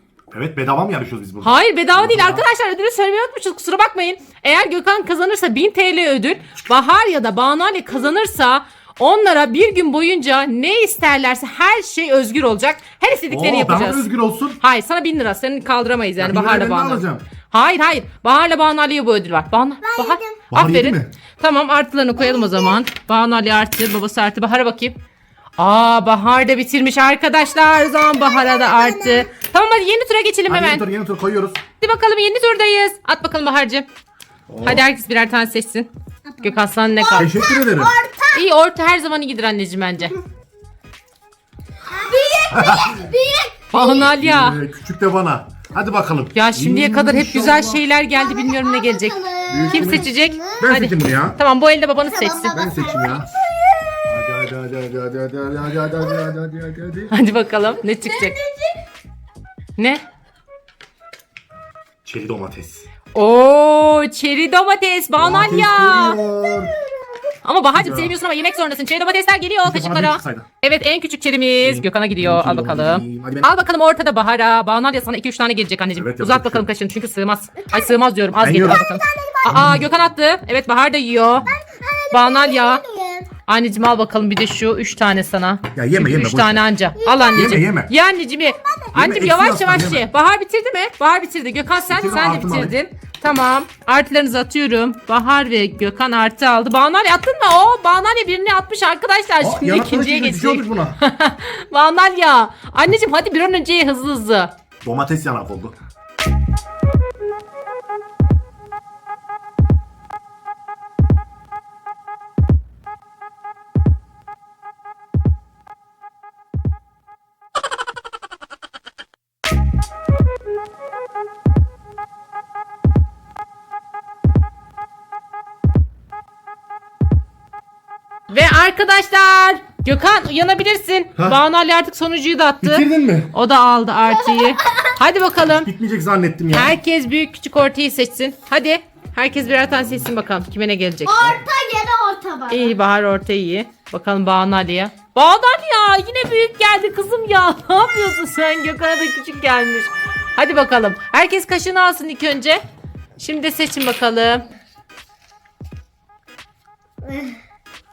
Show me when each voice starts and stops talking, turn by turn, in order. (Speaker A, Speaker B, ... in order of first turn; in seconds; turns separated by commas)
Speaker A: 0.3-2.5, Speaker B: 1.4-14.1, Speaker A: 13.3-14.6, Speaker B: 14.6-25.0, Speaker A: 16.2-17.2, Speaker C: 19.8-20.4, Speaker A: 20.5-21.1, Speaker C: 22.2-22.8, Speaker B: 25.6-30.8, Speaker C: 27.6-29.3, Speaker A: 30.5-31.6, Speaker B: 31.8-33.9, Speaker A: 34.5-34.9, Speaker B: 34.6-35.9, Speaker C: 36.2-38.5, Speaker B: 36.4-37.3, Speaker A: 37.2-37.9, Speaker B: 38.3-40.1, Speaker C: 41.9-43.8, Speaker A: 42.5-43.1, Speaker B: 43.7-44.6, Speaker A: 43.7-47.8, Speaker B: 46.3-49.2, Speaker C: 48.1-50.6, Speaker A: 49.5-51.4, Speaker B: 49.7-52.6, Speaker C: 52.0-54.2, Speaker A: 52.5-53.3, Speaker A: 54.1-57.1, Speaker B: 57.1-58.4, Speaker C: 58.0-58.8, Speaker B: 59.8-60.0, Speaker A: 62.0-62.9, Speaker B: 63.1-66.2, Speaker A: 65.2-66.8, Speaker C: 66.5-67.2, Speaker B: 67.4-81.5, Speaker A: 67.8-68.2, Speaker A: 69.6-70.5, Speaker A: 71.6-73.5, Speaker A: 75.9-76.7, Speaker C: 77.6-79.7, Speaker A: 78.4-78.8, Speaker A: 79.5-79.8, Speaker C: 81.5-83.3, Speaker B: 82.1-82.8, Speaker B: 83.5-104.5, Speaker A: 85.8-86.6, Speaker C: 87.0-87.5, Speaker A: 87.3-87.9, Speaker C: 88.5-88.9, Speaker A: 88.9-90.0, Speaker A: 91.8-92.8, Speaker A: 99.4-101.0, Speaker A: 104.8-105.8, Speaker B: 128.3-135.7, Speaker A: 132.6-133.3, Speaker C: 134.1-134.9, Speaker A: 135.6-136.8, Speaker B: 136.5-141.4, Speaker C: 141.1-142.8, Speaker B: 142.5-152.6, Speaker B: 153.2-154.4